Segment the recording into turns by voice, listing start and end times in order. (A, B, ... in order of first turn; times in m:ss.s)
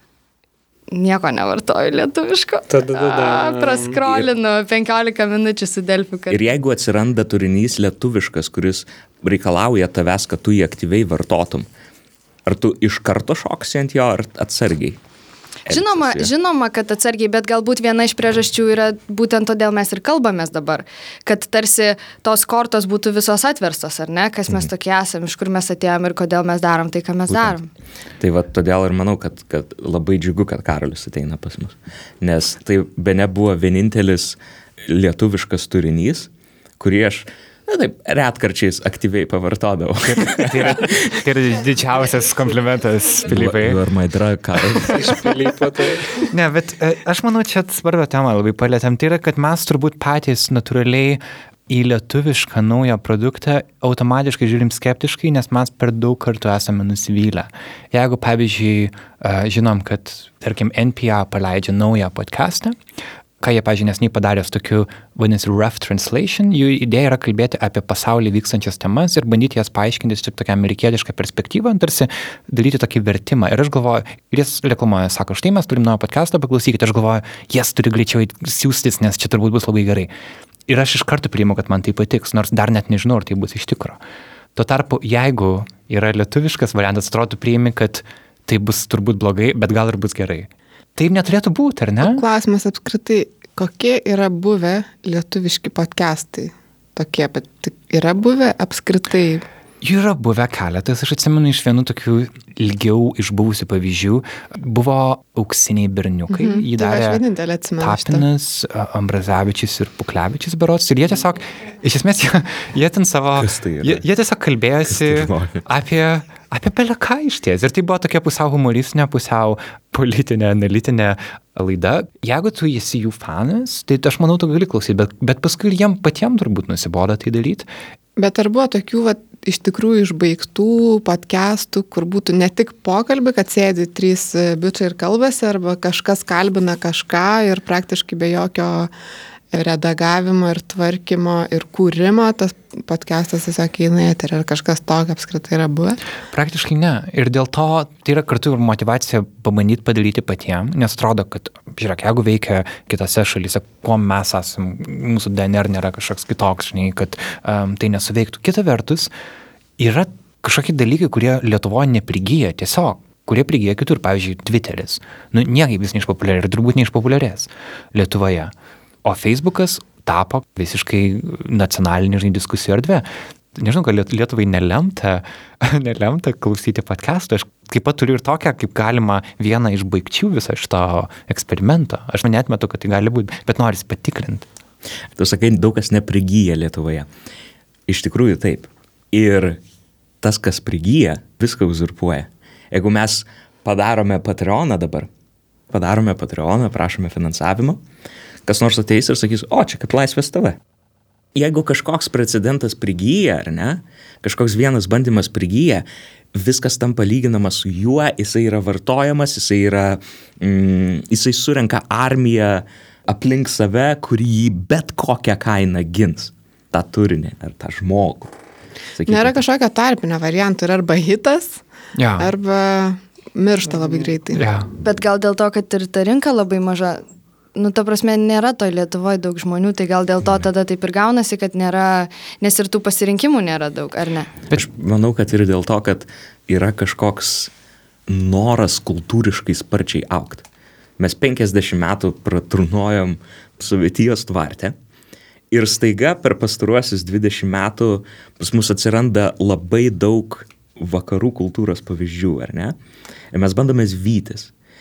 0:00.9-0:06.5 A
0:02.7-0:04.0 B
0:06.3-0:11.7 C
0:12.5-0:15.0 C
0:15.7-0:16.3 C
0:15.7-0:27.7 A
0:27.3-0:27.6 C
0:28.2-0:41.2 C
0:40.0-0:43.8 D
0:43.3-0:45.0 C
0:44.9-0:46.2 B
0:46.2-1:02.8 D
1:03.4-1:20.1 D
1:20.7-1:24.0 D
1:24.6-1:32.2 D
1:32.0-1:39.4 E
1:39.8-1:47.2 D
1:46.3-1:48.2 E
1:47.8-2:07.7 D
1:53.4-1:54.0 C
1:54.9-1:55.6 C
2:08.2-2:18.9 E
2:19.5-2:26.0 E
2:26.3-2:39.1 D
2:39.8-2:48.5 D
2:49.0-3:04.5 D
3:05.2-3:07.1 C
3:07.9-3:09.6 C
3:10.2-3:15.1 C
3:15.7-3:17.8 C
3:18.5-3:20.6 C
3:21.4-3:38.3 C
3:39.0-3:39.4 C
3:39.1-3:41.6 E
3:42.0-3:42.3 D
3:42.2-3:44.5 E
3:44.3-3:44.7 D
3:44.8-3:47.0 A
3:47.6-3:54.3 A
3:54.5-3:57.5 C
3:58.1-4:00.4 C
4:01.0-4:04.8 C
4:05.5-4:12.8 C
4:13.3-4:14.5 C